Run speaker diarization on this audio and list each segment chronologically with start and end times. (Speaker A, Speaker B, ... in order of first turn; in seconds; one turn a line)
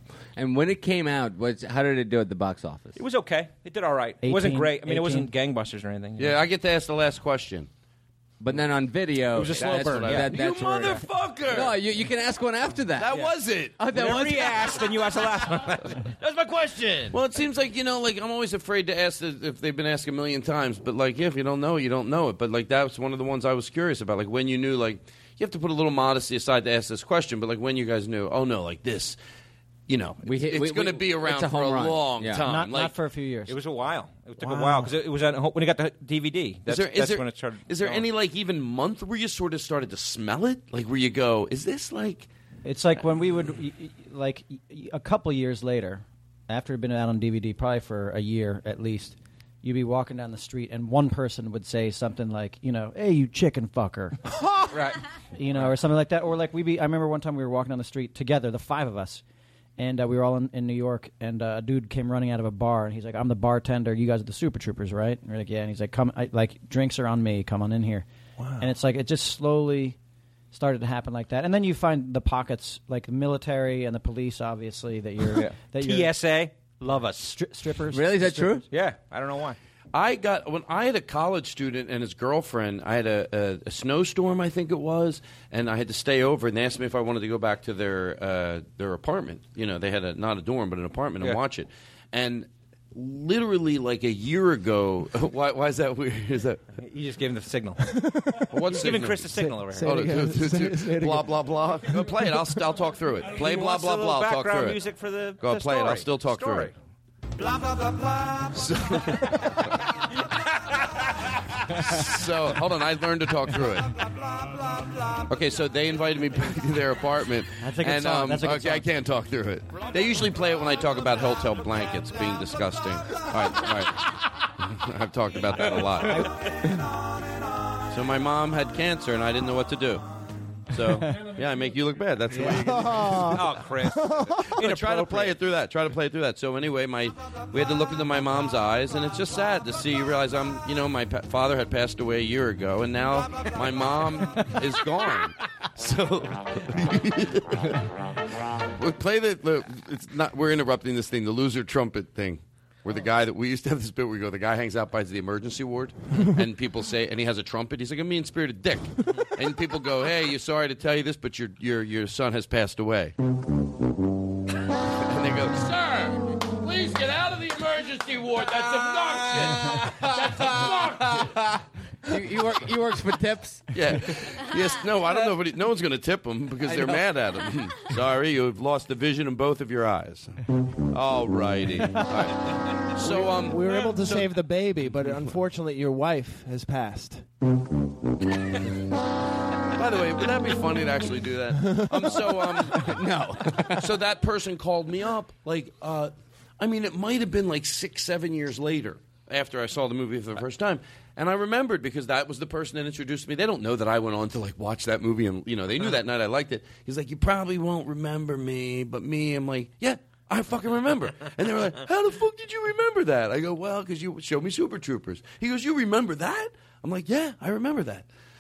Speaker A: 0.4-3.0
Speaker B: 3.0-6.4
Speaker C: 4.2-5.3
Speaker D: 6.2-7.7
Speaker A: 8.4-13.2
Speaker B: 9.3-10.4
Speaker D: 9.4-11.8
Speaker D: 13.0-14.2
Speaker A: 13.8-14.8
Speaker B: 13.9-17.2
Speaker D: 17.1-29.2
Speaker D: 29.9-32.9
Speaker A: 30.2-32.4
Speaker C: 32.4-33.5
Speaker B: 33.5-38.1
Speaker E: 34.4-34.9
Speaker D: 36.7-42.3
Speaker C: 42.6-54.3
Speaker B: 54.7-55.8
Speaker C: 55.4-59.2
Speaker C: 59.8-68.1
Speaker E: 68.4-68.7
Speaker C: 68.6-70.0
Speaker C: 70.5-78.6
Speaker B: 75.3-77.4
Speaker A: 77.9-78.7
Speaker B: 78.7-79.6
Speaker D: 79.9-96.6
Speaker B: 96.8-97.8
Speaker E: 97.8-98.6
Speaker D: 98.5-104.8
Speaker B: 98.7-100.0
Speaker E: 99.3-102.4
Speaker B: 103.3-106.7
Speaker D: 105.4-106.7
Speaker D: 108.5-109.7
Speaker D: 111.7-113.9
Speaker D: 115.3-126.3
Speaker C: 117.6-118.8
Speaker B: 125.7-126.3
Speaker D: 127.9-130.1
Speaker D: 130.7-133.4
Speaker E: 132.3-134.6
Speaker B: 133.2-135.4
Speaker D: 134.5-147.8
Speaker D: 148.8-163.2
Speaker D: 165.0-171.3
Speaker A: 169.3-174.2
Speaker D: 173.7-184.4
Speaker A: 176.6-177.1
Speaker E: 183.0-187.2
Speaker D: 189.8-218.1
Speaker E: 191.6-192.2
Speaker A: 192.7-193.9